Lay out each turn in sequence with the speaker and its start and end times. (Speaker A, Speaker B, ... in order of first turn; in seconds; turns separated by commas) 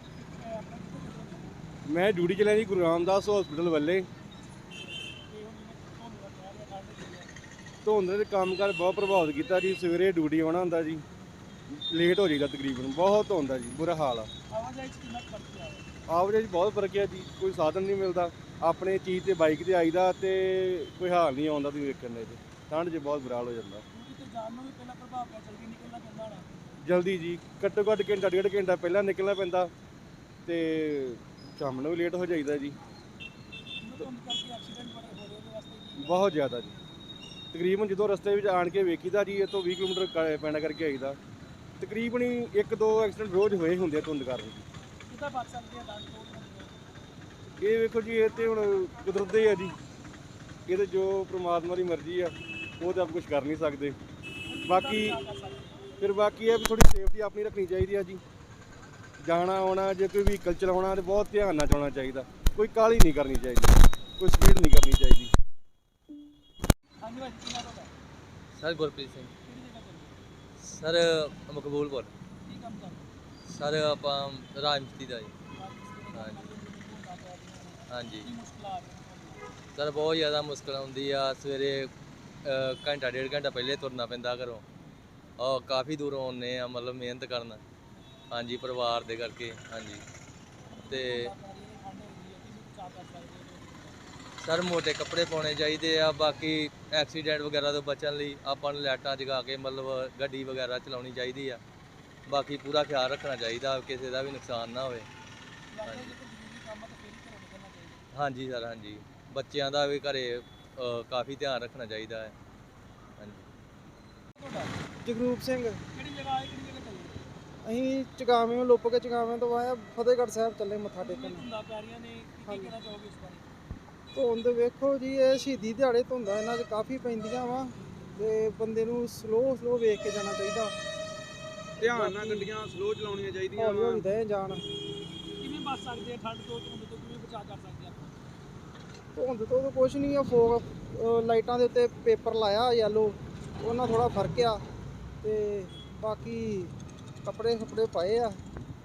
Speaker A: 0.1-1.5, Speaker B: 1.9-4.1, Speaker A: 5.2-7.3, Speaker B: 7.8-11.0, Speaker B: 11.7-14.3, Speaker A: 14.5-15.9, Speaker B: 16.1-23.8, Speaker A: 23.9-26.5, Speaker B: 26.8-29.7, Speaker B: 30.5-32.8, Speaker A: 33.8-36.5, Speaker B: 36.0-36.7, Speaker B: 37.5-41.2, Speaker B: 41.8-44.6, Speaker A: 45.1-46.7, Speaker B: 47.6-49.8, Speaker B: 50.7-54.0, Speaker A: 54.4-55.8, Speaker B: 54.6-55.2, Speaker B: 56.0-58.2, Speaker B: 59.2-65.3, Speaker A: 67.0-67.9, Speaker C: 68.6-69.3, Speaker A: 69.4-70.2, Speaker C: 70.6-72.1, Speaker A: 72.4-73.0, Speaker C: 73.5-75.3, Speaker A: 75.5-79.4, Speaker C: 76.1-76.4, Speaker C: 77.9-78.3, Speaker C: 79.7-81.9, Speaker C: 82.4-84.6, Speaker C: 85.4-87.6, Speaker C: 88.3-90.0, Speaker A: 90.7-94.0, Speaker C: 90.9-91.3, Speaker C: 94.4-101.6, Speaker C: 102.3-105.1, Speaker A: 105.7-108.0, Speaker C: 105.8-106.1, Speaker C: 108.1-112.3, Speaker C: 113.2-113.4, Speaker A: 114.3-114.7, Speaker D: 115.0-115.8, Speaker A: 115.9-117.2, Speaker D: 117.6-121.4, Speaker A: 121.0-123.5, Speaker D: 122.5-122.7, Speaker D: 124.1-130.7, Speaker E: 131.8-134.0, Speaker D: 131.8-132.5, Speaker D: 133.6-134.6, Speaker A: 135.4-138.1, Speaker D: 139.2-144.6, Speaker D: 145.2-146.7, Speaker D: 147.2-148.4